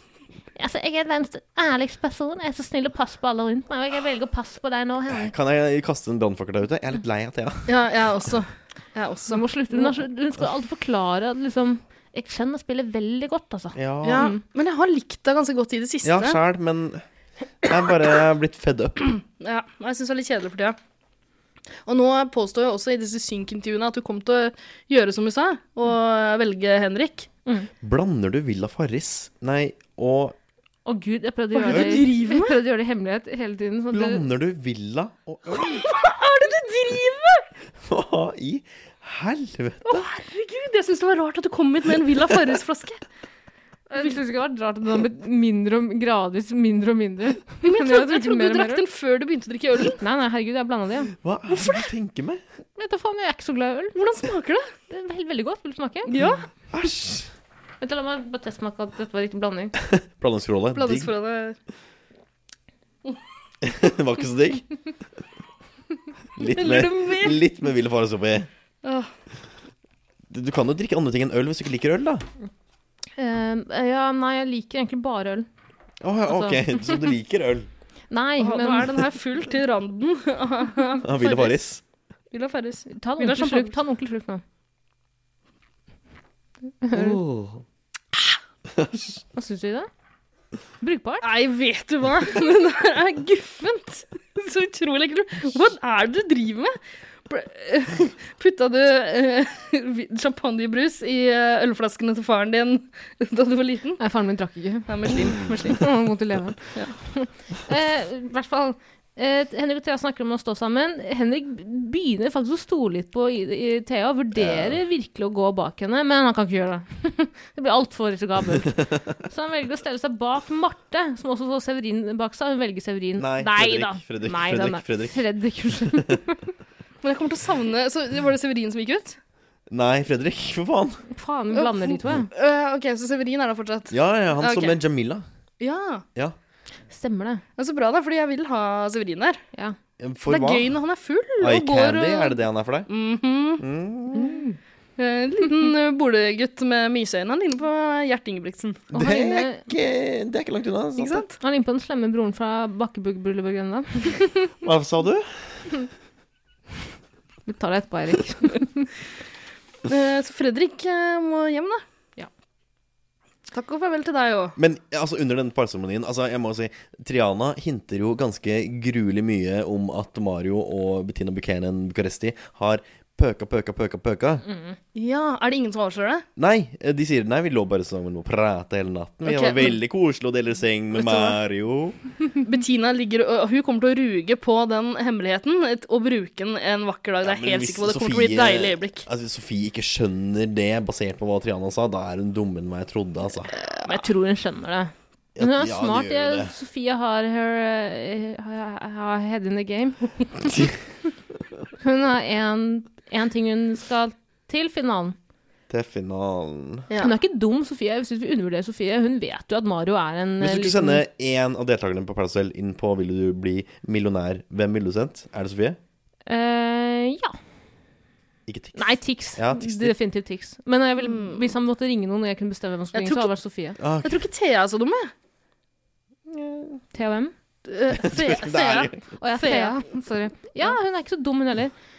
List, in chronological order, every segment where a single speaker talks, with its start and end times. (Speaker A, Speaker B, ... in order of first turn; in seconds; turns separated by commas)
Speaker A: 0.6-5.3, Speaker B: 5.1-7.7, Speaker C: 7.7-9.9, Speaker A: 9.3-14.4, Speaker B: 13.8-14.3, Speaker C: 14.0-16.4, Speaker B: 16.0-17.0, Speaker B: 17.6-19.1, Speaker C: 19.4-20.8, Speaker C: 21.9-27.3, Speaker B: 27.8-30.4, Speaker A: 30.9-34.2, Speaker C: 31.6-32.6, Speaker B: 31.7-32.0, Speaker B: 33.9-35.9, Speaker C: 35.6-37.5, Speaker B: 37.8-40.1, Speaker C: 39.9-43.0, Speaker A: 43.9-48.8, Speaker C: 47.6-50.0, Speaker A: 50.0-51.1, Speaker B: 51.2-52.4, Speaker A: 52.8-54.0, Speaker C: 54.0-54.7, Speaker A: 54.9-56.1, Speaker C: 56.1-56.5, Speaker B: 56.7-57.3, Speaker A: 57.8-59.8, Speaker B: 59.9-61.1, Speaker C: 60.7-61.6, Speaker B: 63.6-64.7, Speaker B: 66.4-68.5, Speaker C: 66.4-67.4, Speaker C: 68.8-69.1, Speaker B: 70.3-72.3, Speaker A: 73.2-75.5, Speaker B: 76.0-77.7, Speaker A: 76.3-77.0, Speaker A: 78.1-78.9, Speaker C: 78.4-81.5, Speaker B: 81.0-81.8, Speaker C: 82.3-83.7, Speaker A: 82.9-84.4, Speaker A: 86.8-87.2, Speaker B: 86.9-87.6, Speaker B: 88.7-89.2, Speaker A: 89.3-89.9, Speaker A: 90.8-91.3, Speaker C: 91.2-96.8, Speaker C: 97.3-104.0, Speaker A: 104.0-126.5, Speaker C: 104.9-105.8, Speaker B: 114.3-114.8, Speaker B: 123.2-125.2, Speaker B: 125.8-126.2, Speaker C: 127.0-129.2, Speaker B: 129.7-131.0, Speaker A: 131.1-132.3, Speaker C: 131.6-134.8, Speaker B: 133.9-135.2, Speaker C: 135.6-136.1, Speaker A: 136.9-137.4, Speaker C: 137.6-139.4, Speaker B: 140.0-140.7, Speaker C: 140.3-143.6, Speaker B: 141.4-142.9, Speaker B: 143.6-144.4, Speaker A: 144.2-144.6, Speaker C: 145.0-148.9, Speaker A: 148.9-149.7, Speaker B: 148.9-151.2, Speaker C: 151.0-151.3, Speaker A: 151.4-154.5, Speaker B: 154.6-155.7, Speaker A: 157.5-158.9, Speaker C: 159.8-161.8, Speaker C: 163.5-164.6, Speaker B: 164.6-174.4, Speaker A: 174.5-174.8, Speaker C: 174.9-176.2, Speaker B: 176.4-182.0, Speaker C: 179.2-179.8, Speaker C: 180.9-181.4, Speaker C: 182.4-189.1, Speaker B: 187.2-193.5, Speaker C: 193.6-194.0, Speaker A: 193.8-200.7, Speaker B: 195.4-196.5, Speaker A: 201.8-205.2, Speaker B: 205.7-206.9, Speaker C: 206.9-207.2, Speaker A: 207.0-211.0, Speaker B: 210.4-215.8, Speaker A: 216.3-217.4, Speaker B: 218.5-219.9, Speaker A: 218.8-223.8, Speaker C: 221.0-221.5, Speaker C: 222.9-223.3, Speaker B: 223.8-224.3, Speaker C: 224.0-225.1, Speaker B: 226.3-226.8, Speaker A: 226.9-227.3, Speaker C: 227.7-229.8, Speaker B: 227.9-229.0, Speaker A: 229.2-231.7